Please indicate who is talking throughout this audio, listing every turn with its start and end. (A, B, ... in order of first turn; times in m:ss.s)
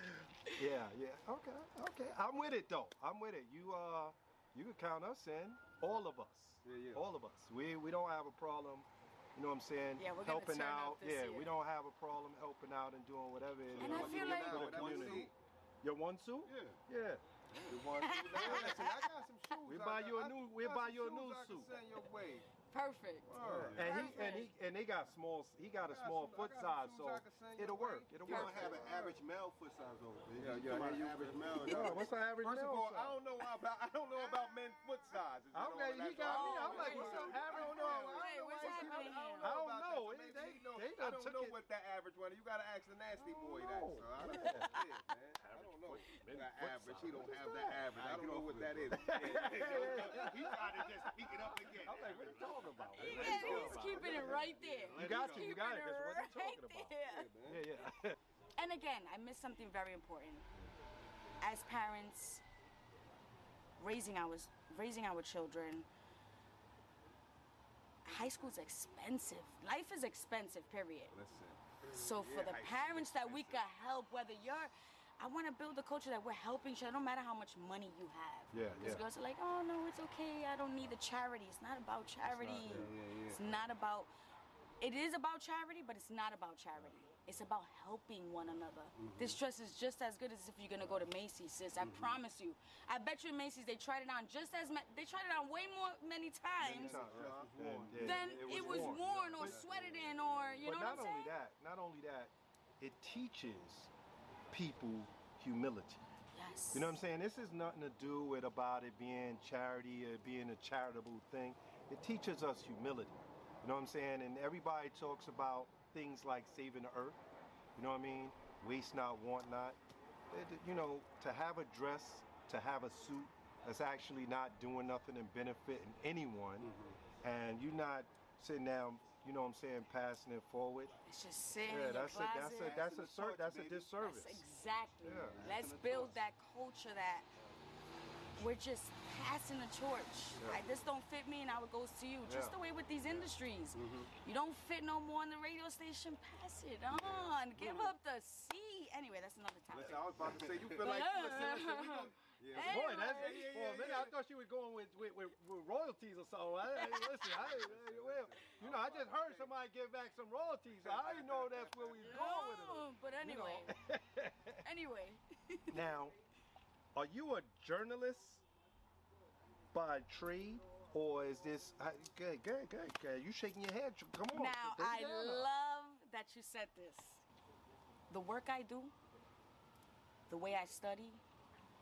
0:00.5-0:17.2 A
0:06.6-0:07.0 B
0:10.0-0:11.5 C
0:13.7-0:15.3 D
0:13.7-0:15.3 B
0:13.8-0:14.9 C
0:16.4-0:16.8 D
0:17.5-0:17.9 D
0:17.7-0:22.5 B
0:18.0-0:19.0 C
0:18.4-0:18.7 A
0:19.6-0:21.8 A
0:22.7-0:24.5 C
0:23.3-0:24.1 B
0:23.4-0:24.0 D
0:23.4-0:28.8 A
0:25.8-0:29.2 B
0:28.2-0:32.0 D
0:28.3-0:28.7 C
0:30.4-0:50.9 B
0:31.7-0:33.2 A
0:35.5-0:41.6 A
0:36.2-0:39.6 C
0:36.7-0:38.2 D
0:43.2-0:44.7 A
0:44.2-0:44.9 C
0:45.4-0:47.9 A
0:47.2-0:55.6 D
0:48.9-0:51.1 A
0:51.8-0:58.2 A
0:52.9-0:57.3 C
0:53.1-0:54.5 B
0:57.0-0:57.6 B
0:58.6-1:00.4 C
1:01.4-1:02.4 C
1:03.8-1:05.9 C
1:08.0-1:11.2 C
1:11.1-1:13.6 B
1:11.9-1:24.1 C
1:18.5-1:19.0 A
1:22.5-1:22.9 A
1:22.6-1:23.4 B
1:22.7-1:22.9 D
1:24.8-1:37.0 C
1:29.0-1:29.4 D
1:31.8-1:32.1 B
1:36.6-1:39.6 A
1:36.6-1:40.2 B
1:36.7-1:40.6 D
1:38.0-1:41.3 C
1:40.6-1:43.9 A
1:44.5-1:46.0 A
1:46.4-1:47.0 C
1:46.7-1:57.2 A
1:57.8-1:59.8 A
2:00.3-2:06.7 A
2:06.6-2:07.0 D
2:07.2-2:10.9 A
2:11.1-2:12.8 C
2:11.6-2:14.4 A
2:12.6-2:13.9 D
2:14.0-2:17.3 C
2:15.0-2:15.4 A
2:15.3-2:16.2 D
2:18.4-2:30.2 C
2:20.4-2:20.6 A
2:22.3-2:22.6 A
2:23.8-2:24.1 B
2:26.9-2:27.9 B
2:29.7-2:34.1 B
2:29.8-2:31.6 D
2:30.8-2:33.6 C
2:32.5-2:44.6 A
2:36.8-2:37.4 C
2:37.4-2:39.4 B
2:37.6-2:38.2 D
2:40.8-2:42.0 B
2:42.0-2:43.8 C
2:44.6-2:45.8 C
2:45.7-2:46.2 A
2:47.0-2:48.4 A
2:49.7-2:55.5 A
2:54.3-2:57.2 C
2:58.1-2:58.9 C
3:00.3-3:01.2 C